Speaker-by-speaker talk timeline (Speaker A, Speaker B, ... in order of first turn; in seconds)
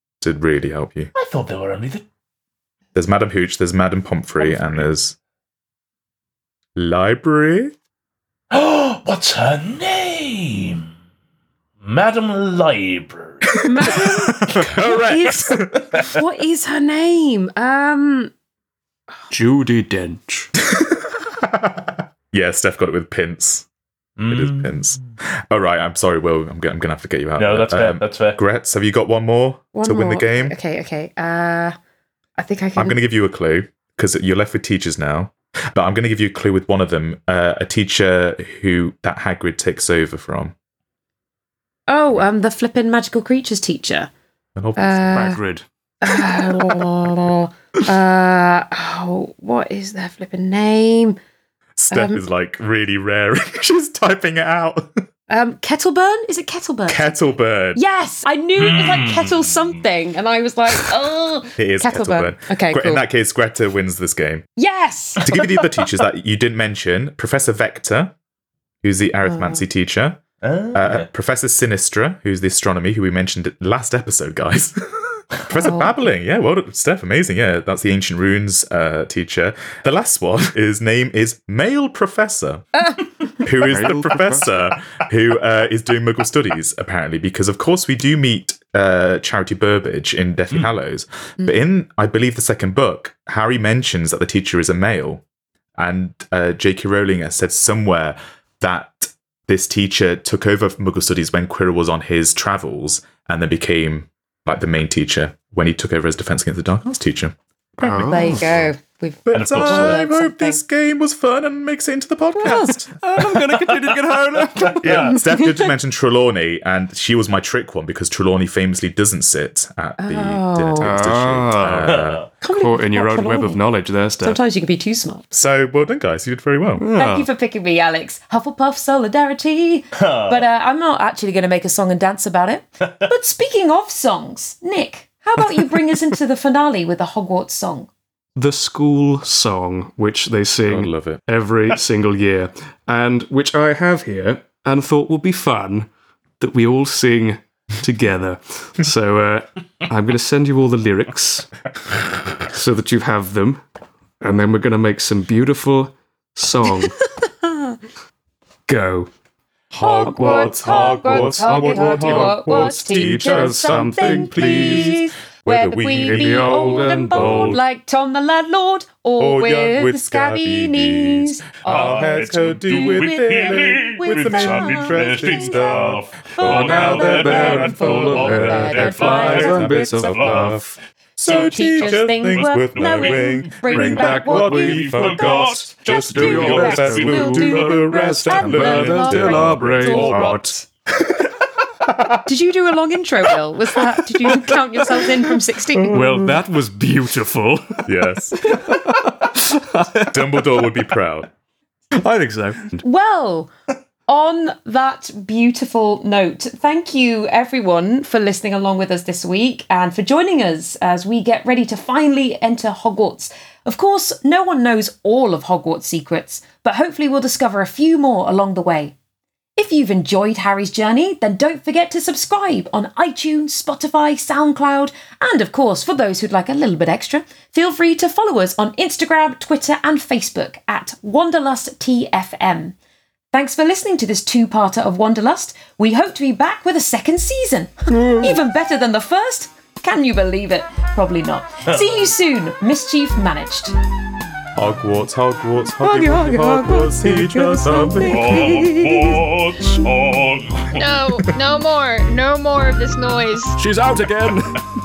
Speaker A: 0.2-1.1, 3.0-5.2, 6.8-7.8, 13.7-15.9, 20.7-23.7, 24.3-30.6, 32.8-40.5, 44.6-45.3, 46.5-46.8, 51.8-55.0, 56.9-57.8, 61.6-64.5, 65.2-68.2, 68.8-70.2, 70.7-95.2, 95.8-108.7, 109.3-113.0, 114.8-122.2, 125.3-126.9, 140.7-141.2, 159.7-167.6, 169.2-180.6, 181.2-192.2, 195.8-196.4, 197.9-198.5, 200.1-201.3, 244.6-248.7
Speaker B: 1.1-2.0, 8.5-10.9, 11.8-13.9, 24.2-24.7, 27.4-28.4, 58.6-59.6, 65.3-65.6, 70.4-71.1, 109.3-110.0, 113.2-115.2, 121.8-122.3, 130.0-130.4, 171.6-180.6, 181.8-183.3, 184.3-186.8, 248.0-250.9
Speaker C: 13.6-18.3, 29.7-31.8, 32.4-33.0, 41.9-44.1, 44.8-45.4, 46.0-51.2, 51.9-52.2, 55.3-57.1, 57.8-63.0, 64.6-65.2, 69.3-69.6, 75.6-75.9, 108.0-110.6, 112.4-112.8, 115.1-115.6, 120.0-121.2, 122.4-123.6, 124.2-125.2, 127.0-137.9, 157.0-157.6, 159.8-180.0, 181.2-190.6, 192.2-196.0, 202.8-203.5, 204.1-218.9, 219.6-232.8, 233.3-243.7, 245.8-249.3
Speaker D: 19.3-20.5, 45.1-45.7, 83.6-84.6, 107.8-108.5, 113.0-115.1, 120.8-124.4, 126.8-127.3, 138.4-151.5, 152.5-153.7, 154.2-157.0, 158.7-159.1, 160.1-165.0, 166.0-167.6, 176.4-180.8, 183.7-190.6, 195.9-200.8, 201.9-202.8, 238.0-238.3, 253.6-254.7
Speaker E: 250.8-253.6